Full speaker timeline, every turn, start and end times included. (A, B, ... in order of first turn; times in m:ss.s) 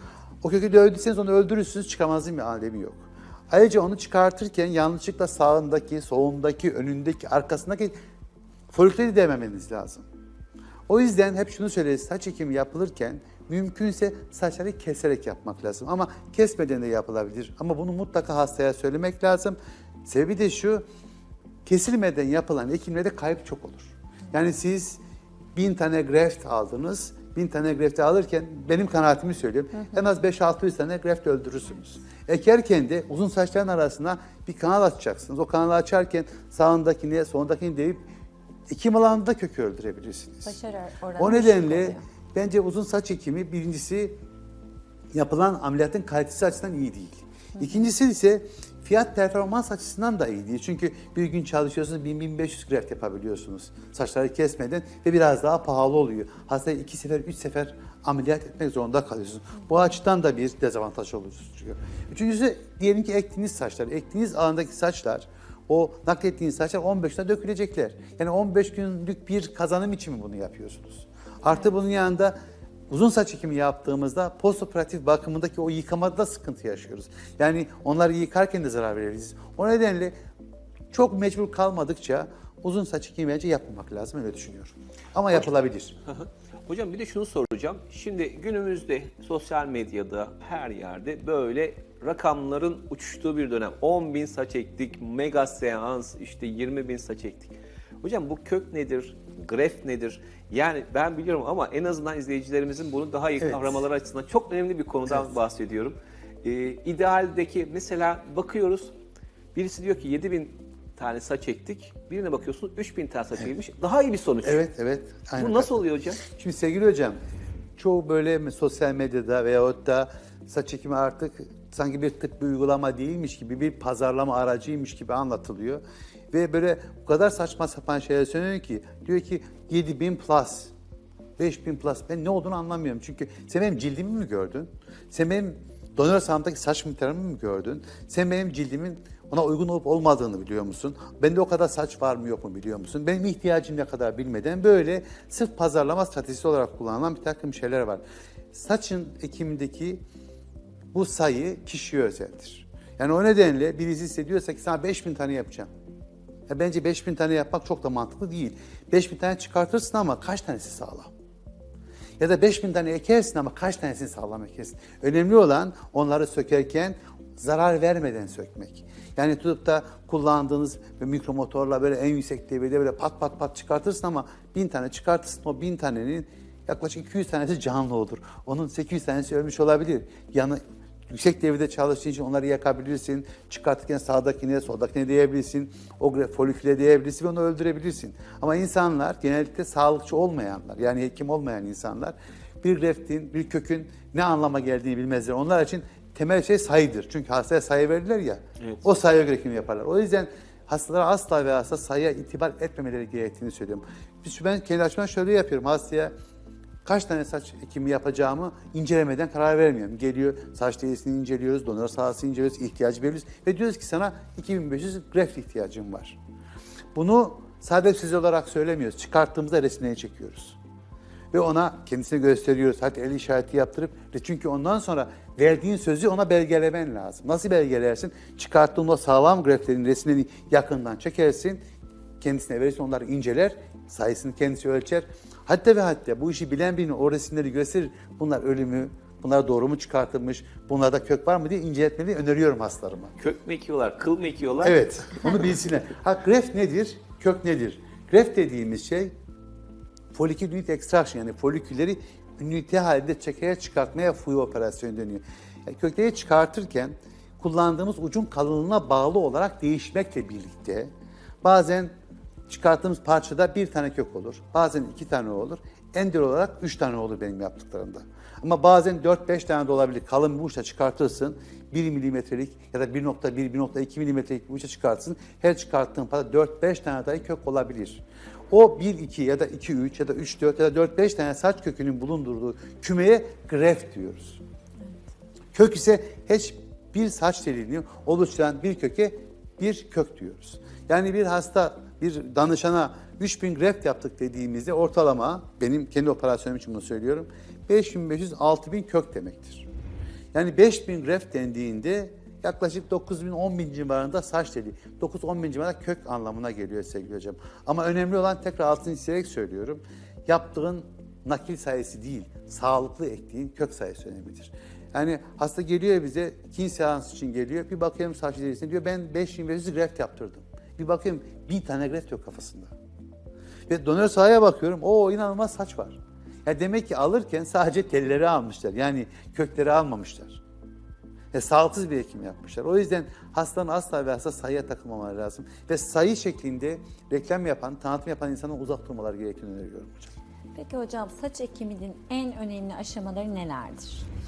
0:00.4-0:08.0 A
0:08.7-0:10.1 A
0:10.9-0:20.8 A
0:21.7-0:25.0 A
0:25.6-0:38.0 A
0:38.7-0:40.6 A
0:40.5-0:42.0 B
0:41.2-0:44.2 A
0:45.1-1:12.4 A
0:47.6-0:47.8 B
1:12.9-1:20.2 A
1:20.9-1:26.0 A
1:26.1-1:48.9 C
1:43.4-1:43.8 A
1:49.5-1:54.7 C
1:54.4-1:57.2 A
1:55.4-1:56.2 C
1:57.8-2:10.7 A
2:11.4-2:30.0 A
2:30.9-2:35.7 A
2:36.5-2:41.1 A
2:42.2-3:26.1 A
3:26.8-3:36.2 A
3:37.0-3:40.6 A
3:41.3-3:51.6 A
3:52.2-4:03.2 A
4:03.2-4:04.9 C
4:04.6-4:09.1 A
4:10.1-4:20.9 A
4:21.4-4:21.9 A
4:22.5-4:44.4 A
4:45.5-4:59.7 A
5:00.3-5:22.7 A
5:23.7-5:30.4 A
5:31.3-5:40.1 A
5:40.6-5:44.0 B